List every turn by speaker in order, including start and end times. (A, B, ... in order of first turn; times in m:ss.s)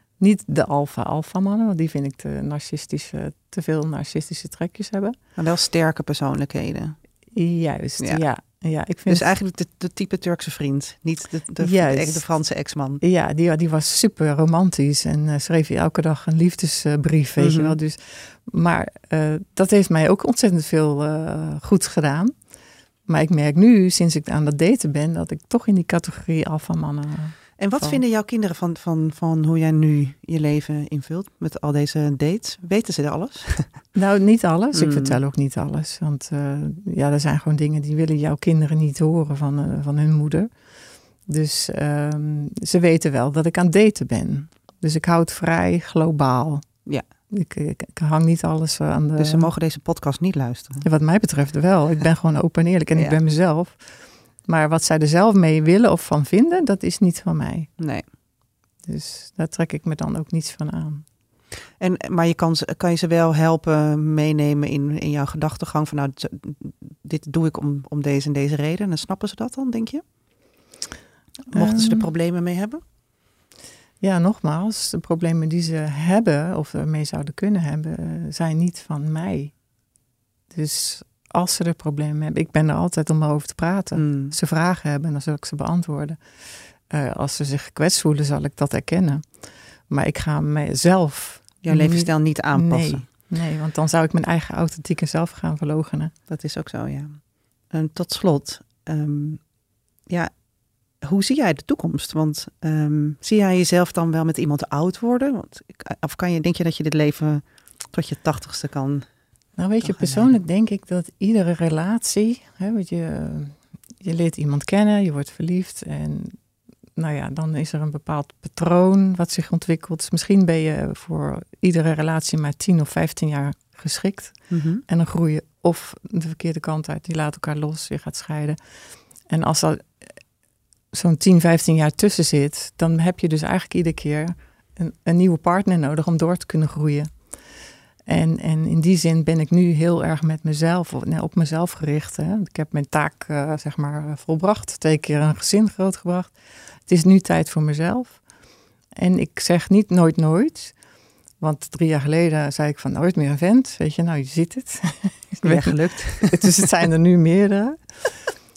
0:00.2-0:05.2 A
0:05.4-0:07.0 B
0:07.3-0:09.3 A
0:09.1-0:13.0 B
0:11.6-0:12.2 A
0:13.0-0:22.3 A
0:17.4-0:17.8 B
0:23.1-0:28.0 A
0:27.6-0:33.8 B
0:33.9-0:40.5 A
0:34.7-0:35.2 B
0:41.2-0:49.5 A
0:49.2-0:50.8 B
0:50.8-0:53.8 A
0:54.4-0:57.8 A
0:57.8-0:58.0 B
0:58.8-1:01.0 A
1:01.8-1:10.0 B
1:11.5-1:12.1 A
1:11.5-1:12.8 B
1:14.0-1:19.6 A
1:20.5-1:36.1 A
1:24.0-1:24.4 B
1:31.6-1:33.0 B
1:36.3-1:39.4 B
1:41.0-1:49.1 B
1:49.6-1:56.4 A
1:49.8-1:50.4 B
1:57.0-2:08.6 A
2:04.5-2:04.8 B
2:09.2-2:10.1 A
2:10.9-2:17.3 A
2:18.0-2:28.2 A
2:29.0-2:30.8 A
2:31.4-2:38.1 A
2:35.4-2:36.7 B